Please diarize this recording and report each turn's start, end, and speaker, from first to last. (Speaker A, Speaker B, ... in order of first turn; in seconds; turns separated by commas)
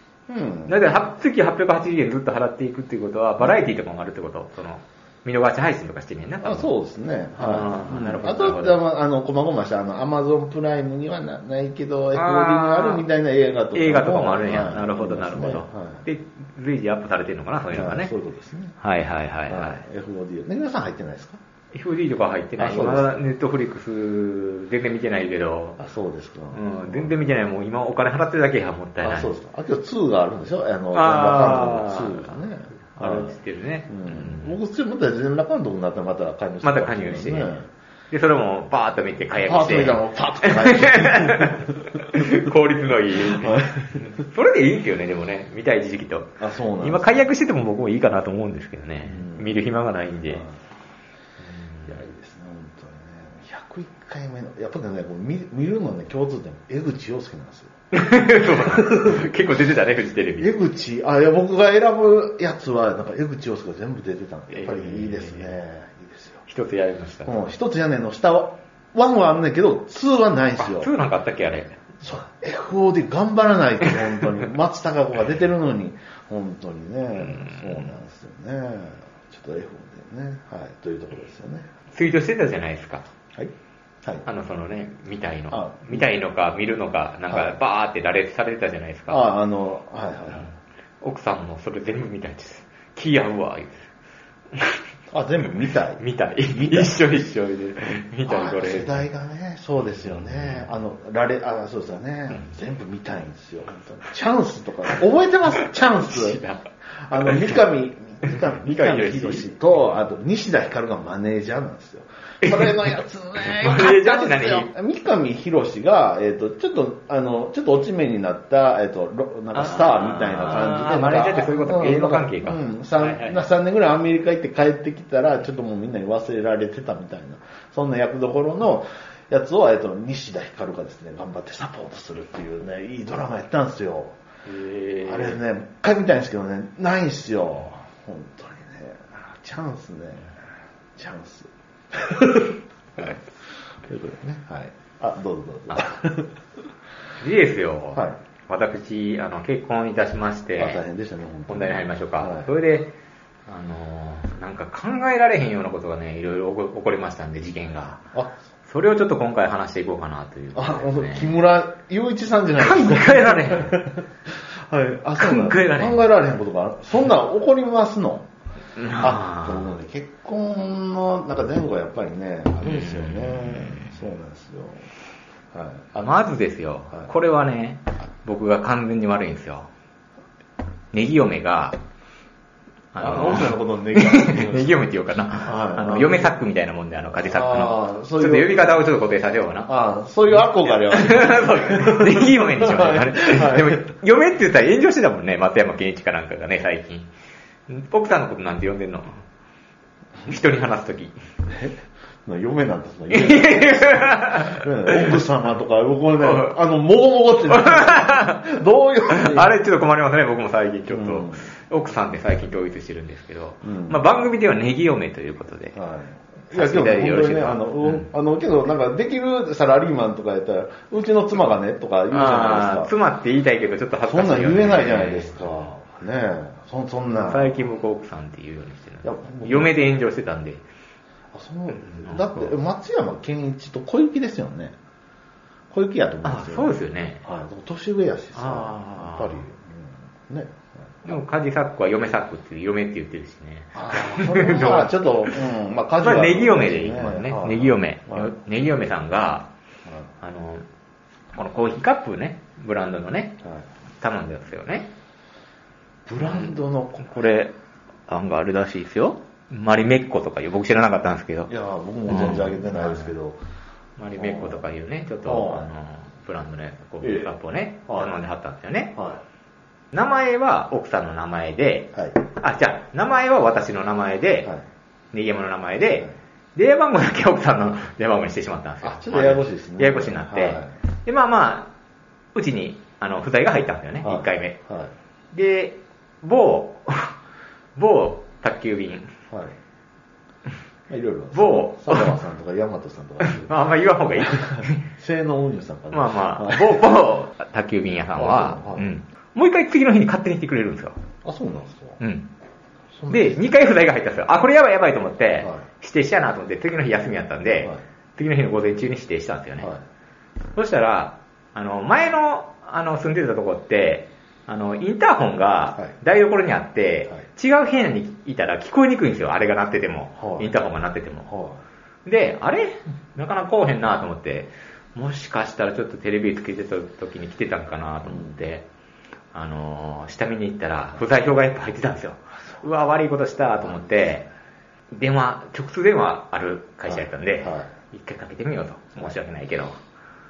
Speaker A: 0.3-0.8, Speaker B: 0.7-6.7, Speaker A: 6.4-16.0, Speaker B: 7.4-8.8, Speaker B: 12.1-13.0, Speaker B: 13.7-18.1, Speaker A: 17.7-18.8, Speaker B: 18.8-19.8, Speaker A: 19.5-21.4, Speaker B: 21.7-25.8, Speaker A: 22.6-23.3, Speaker A: 25.8-27.3, Speaker B: 26.5-29.3, Speaker A: 29.0-33.4, Speaker B: 30.9-32.4, Speaker B: 33.0-34.6, Speaker A: 33.9-37.7, Speaker B: 36.6-37.5, Speaker B: 38.1-50.5, Speaker A: 39.4-41.8, Speaker A: 43.2-44.0, Speaker A: 46.4-47.2, Speaker A: 49.0-49.5, Speaker B: 51.5-51.9, Speaker A: 51.9-57.7, Speaker B: 57.9-60.5, Speaker A: 58.5-59.3, Speaker A: 60.4-66.4, Speaker B: 64.5-65.5, Speaker B: 66.5-67.3, Speaker A: 67.3-70.9, Speaker B: 70.6-71.8, Speaker A: 72.0-81.7, Speaker B: 77.1-78.0, Speaker B: 81.9-83.1, Speaker A: 83.3-84.2, Speaker B: 84.2-89.2, Speaker A: 85.5-86.1, Speaker A: 87.3-87.6, Speaker A: 89.1-90.5, Speaker B: 91.0-93.9, Speaker B: 94.5-94.8, Speaker A: 95.1-97.0, Speaker B: 96.0-99.1, Speaker A: 98.3-106.4, Speaker B: 100.1-100.7, Speaker B: 106.0-106.6, Speaker A: 107.0-134.2, Speaker B: 107.2-107.5, Speaker B: 108.2-109.5, Speaker B: 112.4-114.7, Speaker B: 119.5-123.4, Speaker B: 134.5-135.4, Speaker A: 135.1-140.4, Speaker A: 141.0-146.4, Speaker B: 147.2-150.8, Speaker A: 150.6-152.5, Speaker B: 151.5-152.9, Speaker B: 153.5-158.1, Speaker B: 158.7-161.3, Speaker A: 160.5-168.3, Speaker B: 162.6-163.8, Speaker B: 165.2-166.0, Speaker B: 168.8-169.7, Speaker A: 169.0-174.9, Speaker B: 172.6-173.9, Speaker A: 175.5-176.1, Speaker B: 176.0-179.7, Speaker B: 180.9-181.8, Speaker B: 182.9-189.7, Speaker A: 183.0-184.8, Speaker A: 185.4-186.3, Speaker A: 187.2-188.8, Speaker A: 189.7-193.8, Speaker B: 190.4-197.1, Speaker B: 197.7-199.2, Speaker B: 200.3-201.2, Speaker A: 201.5-209.6, Speaker B: 203.1-205.2, Speaker B: 206.2-206.6, Speaker B: 207.5-208.5, Speaker B: 209.1-215.8, Speaker A: 210.9-211.5, Speaker A: 213.6-214.0, Speaker A: 215.8-222.9, Speaker B: 216.5-218.1, Speaker B: 222.1-225.7, Speaker A: 224.1-227.6, Speaker B: 227.1-230.6, Speaker A: 229.0-229.8, Speaker A: 231.3-234.8, Speaker B: 231.7-232.6, Speaker A: 235.7-236.7, Speaker B: 236.2-237.2, Speaker A: 237.2-241.0, Speaker B: 238.3-239.4, Speaker B: 241.1-245.4, Speaker A: 243.8-248.3, Speaker B: 246.0-249.5, Speaker B: 250.2-250.7, Speaker B: 251.3-253.4, Speaker B: 254.0-254.9, Speaker A: 256.1-257.1, Speaker B: 256.2-257.6, Speaker B: 258.1-261.5, Speaker A: 261.5-263.4, Speaker B: 262.1-263.1, Speaker B: 264.0-269.0, Speaker A: 264.2-264.6, Speaker A: 265.2-265.7, Speaker A: 267.0-267.3, Speaker A: 267.9-268.1, Speaker A: 269.0-269.2, Speaker B: 269.9-274.5, Speaker B: 275.1-281.7, Speaker A: 278.8-280.7, Speaker B: 282.4-284.6, Speaker A: 284.0-284.9, Speaker B: 285.3-287.2, Speaker B: 287.8-289.1, Speaker A: 289.3-289.6, Speaker A: 290.9-293.5, Speaker B: 291.3-292.2, Speaker B: 293.2-294.9, Speaker A: 294.2-296.9, Speaker B: 295.9-301.0, Speaker A: 298.1-298.9, Speaker A: 301.2-302.0, Speaker B: 302.0-302.3, Speaker A: 302.9-303.4, Speaker B: 303.1-309.7, Speaker B: 310.6-321.3, Speaker A: 320.2-320.5, Speaker A: 321.3-321.6, Speaker B: 322.1-328.7, Speaker A: 328.1-328.4, Speaker B: 329.3-334.3, Speaker A: 333.6-334.1, Speaker B: 334.9-339.8, Speaker A: 336.9-337.7